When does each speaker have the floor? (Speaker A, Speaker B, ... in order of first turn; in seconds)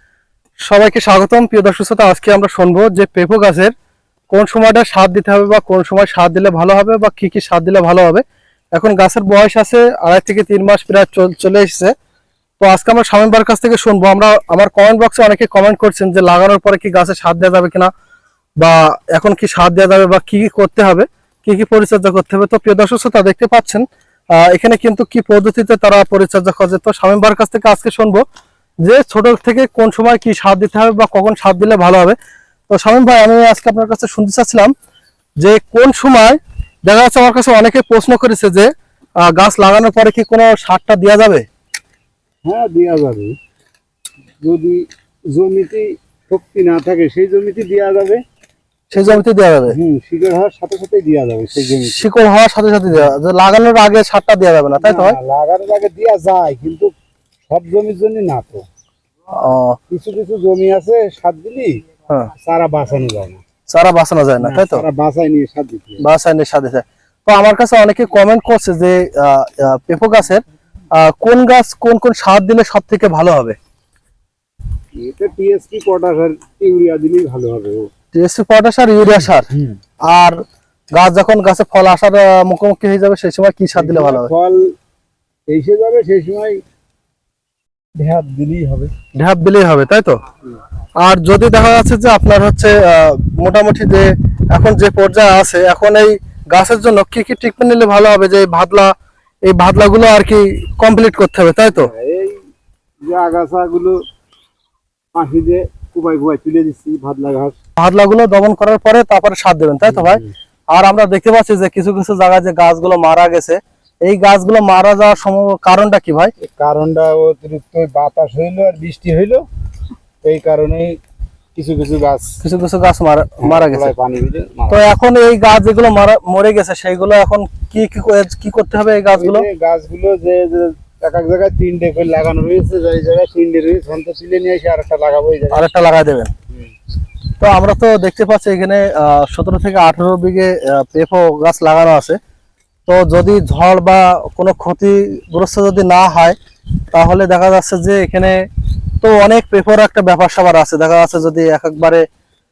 Speaker A: 0.6-3.7, 4.3-8.2, 8.7-11.9, 12.6-17.9, 18.6-28.2, 28.8-32.2, 32.7-34.7, 35.4-38.7, 39.2-41.4, 48.9-49.8, 51.6-55.2, 59.3-59.8, 63.7-64.8, 66.0-70.4, 70.9-73.6, 78.1-79.5, 80.1-80.4, 80.9-84.3, 89.1-90.2, 91.0-98.9, 99.5-101.9, 107.8-116.3, 122.4-123.9, 124.7-129.4, 135.5-136.3, 137.4-142.2, 142.9-146.4, 146.9-148.4, 149.0-152.0
Speaker B: 42.4-43.4, 44.4-48.2, 48.9-52.0, 54.8-56.9, 57.5-58.6, 59.9-61.8, 62.3-63.4, 64.4-66.0, 74.9-77.9, 79.0-79.8, 83.7-84.7, 85.5-86.6, 88.0-88.9, 101.7-102.4, 103.0-104.0, 105.1-107.5, 109.8-110.3, 116.4-119.4, 120.2-121.0, 121.5-122.4, 123.4-124.8, 129.1-135.7